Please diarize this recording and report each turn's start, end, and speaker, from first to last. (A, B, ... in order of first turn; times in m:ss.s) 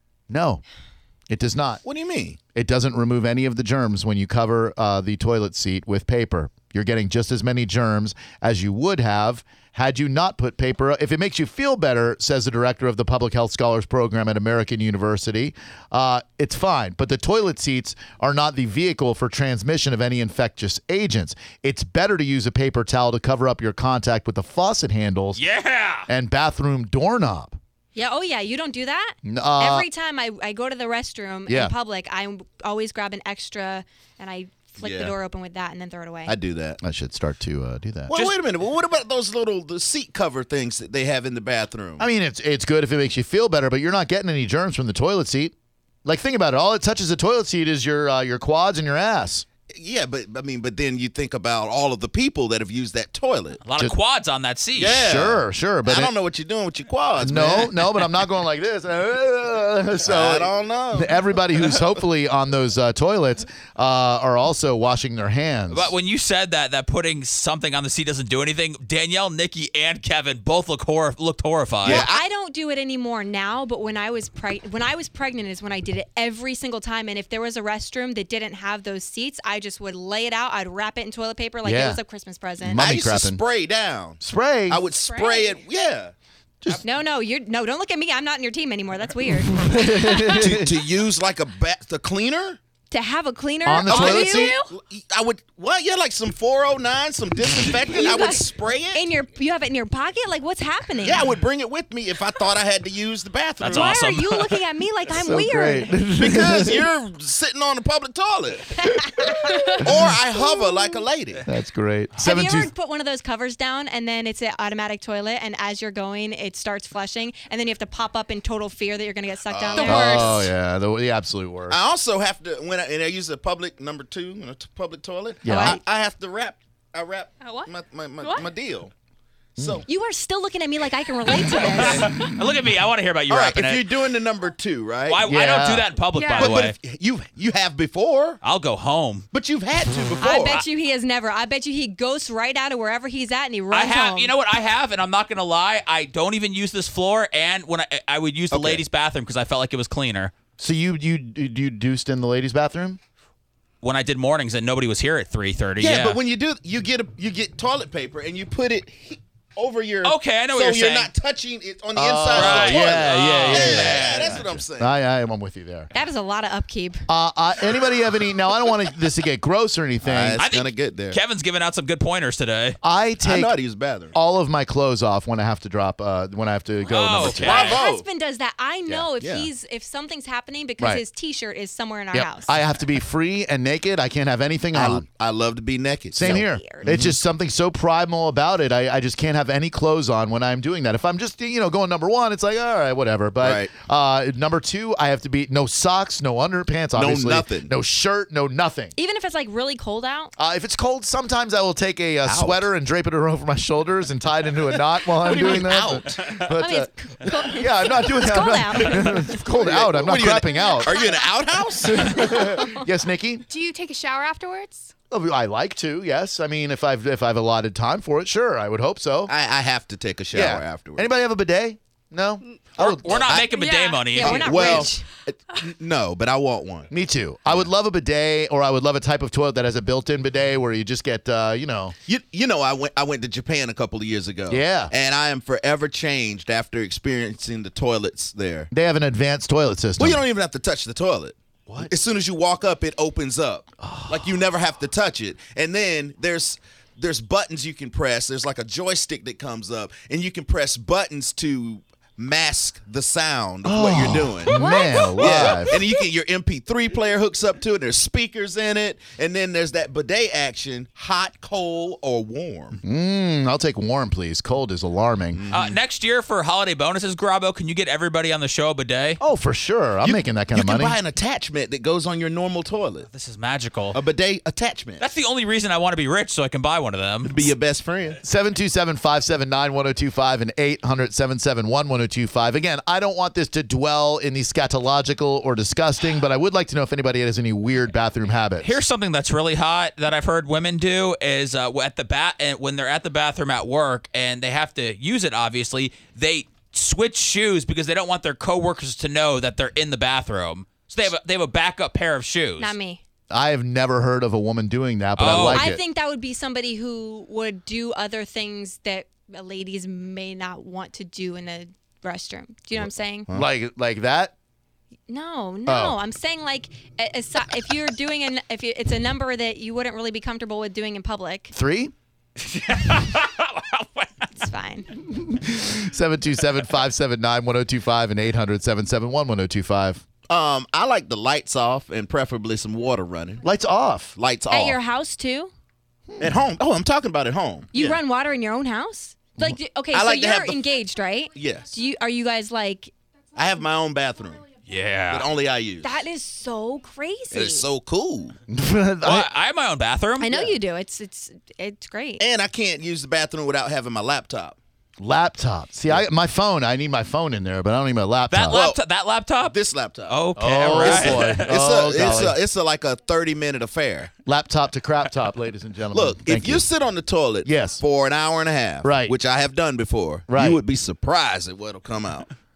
0:00.3-0:00.6 A
0:01.3-0:01.8 A
0:01.8-0:02.4 B
0:02.5-0:25.4 A
0:25.3-0:26.1 C
0:26.1-0:27.6 A
0:27.9-0:36.3 D
0:29.2-0:29.8 A
0:31.5-0:31.7 A
0:34.8-0:35.2 B
0:36.3-0:36.8 B
0:36.8-0:38.1 A
0:38.1-0:42.0 B
0:42.0-0:45.5 A
0:46.0-0:49.4 A
0:49.7-0:53.6 B
0:53.6-0:55.0 C
0:54.8-0:57.8 B
0:55.0-0:56.1 A
0:57.2-1:05.9 A
1:00.0-1:01.8 B
1:05.7-1:12.1 C
1:11.8-1:12.2 B
1:11.8-1:22.8 D
1:21.6-1:22.0 A
1:22.6-1:23.4 A
1:22.7-1:26.1 B
1:24.2-1:24.8 A
1:25.1-1:25.5 D
1:26.8-1:30.4 D
1:29.5-1:30.6 A
1:30.3-1:32.6 B
1:32.9-1:34.7 D
1:33.6-1:34.5 A
1:33.9-1:39.1 B
1:37.8-1:41.3 D
1:41.0-1:44.0 B
1:43.6-1:44.6 C
1:43.7-1:46.0 D
1:45.1-1:46.8 A
1:46.2-1:48.7 B
1:48.7-1:50.9 D
1:49.8-1:51.4 B
1:51.4-1:52.7 A
1:52.2-2:00.2 D
1:59.4-2:00.5 B
1:59.8-2:00.4 E
1:59.8-2:01.8 A
2:01.7-2:08.9 B
2:05.4-2:05.8 A
2:05.5-2:05.8 D
2:07.4-2:08.5 E
2:09.6-2:09.8 B
2:09.9-2:12.1 D
2:11.7-2:13.9 C
2:11.7-2:12.1 B
2:13.3-2:15.2 B
2:15.1-2:16.7 C
2:15.3-2:15.8 A
2:16.1-2:16.6 E
2:16.3-2:18.4 B
2:18.4-2:19.3 C
2:19.3-2:20.6 B
2:20.2-2:24.3 D
2:23.7-2:30.3 C
2:28.5-2:28.8 B
2:30.6-2:33.0 A
2:33.8-2:36.2 C
2:35.8-2:44.9 B
2:40.0-2:41.1 C
2:42.0-2:45.9 A
2:42.3-2:44.4 C
2:45.9-2:47.0 D
2:47.1-2:50.4 A
2:50.0-2:51.2 B
2:50.4-2:52.8 C
2:52.8-2:53.5 A
2:53.2-2:54.2 B
2:54.1-2:57.7 A
2:56.9-2:57.8 C
2:57.2-2:58.1 B
2:57.5-3:02.6 D
2:58.8-2:59.5 B
3:02.1-3:05.0 A
3:04.7-3:07.2 B
3:06.1-3:18.9 A
3:06.2-3:06.9 D
3:13.4-3:13.7 B
3:16.9-3:17.7 B
3:19.0-3:20.3 D
3:20.4-3:31.0 A
3:22.2-3:22.7 B
3:25.2-3:26.1 B
3:26.1-3:26.4 C
3:26.6-3:29.4 D
3:29.4-3:32.7 B
3:30.8-3:31.2 D
3:31.8-3:33.4 A
3:33.5-3:34.9 E
3:35.1-3:39.3 A
3:39.3-3:41.1 B
3:40.3-3:43.4 A
3:42.8-3:44.8 C
3:43.1-3:43.5 B
3:43.4-3:44.2 E
3:44.1-3:45.0 D
3:44.2-3:46.9 B
3:46.9-3:51.9 A
3:52.1-3:58.7 B
3:54.5-3:54.9 A
3:58.7-4:00.2 A
4:00.0-4:14.6 B
4:03.8-4:04.3 A
4:13.6-4:15.7 A
4:14.5-4:15.7 C
4:14.6-4:15.1 D
4:15.2-4:22.8 B
4:22.8-4:25.4 A
4:25.3-4:25.8 B
4:25.5-4:29.2 C
4:29.2-4:31.0 A
4:30.0-4:33.1 B
4:33.1-4:34.0 C
4:33.9-4:35.0 B
4:35.0-4:37.5 C
4:37.2-4:38.2 B
4:38.2-4:48.8 A
4:48.6-5:02.8 C
5:02.6-5:03.0 D
5:03.3-5:05.8 A
5:05.2-5:05.7 C
5:05.5-5:13.3 D
5:12.7-5:13.5 B
5:13.3-5:14.3 A
5:15.1-5:21.5 D
5:15.7-5:16.0 A
5:21.5-5:21.9 A
5:22.4-5:24.3 C
5:24.4-5:24.9 D
5:25.1-5:30.0 A
5:30.3-5:33.5 B
5:33.4-5:34.2 A
5:34.2-5:34.8 B
5:34.5-5:35.5 D
5:36.1-5:36.3 A
5:36.2-5:38.0 B
5:37.7-5:42.9 D
5:39.9-5:40.6 B
5:41.3-5:41.8 B
5:43.3-5:44.5 B
5:44.6-5:45.3 C
5:45.1-5:46.0 B
5:45.8-5:47.7 D
5:47.3-5:48.4 B
5:48.5-5:49.3 A
5:49.0-5:50.3 C
5:50.2-5:52.2 D
5:52.2-5:54.6 B
5:55.0-5:58.6 A
5:58.3-5:59.5 C
5:58.4-5:58.8 B
5:59.4-6:04.2 B
6:00.1-6:01.5 C
6:00.4-6:02.4 A
6:04.2-6:06.6 A
6:05.9-6:12.3 B
6:07.4-6:07.8 A
6:08.8-6:09.1 A
6:10.3-6:10.6 A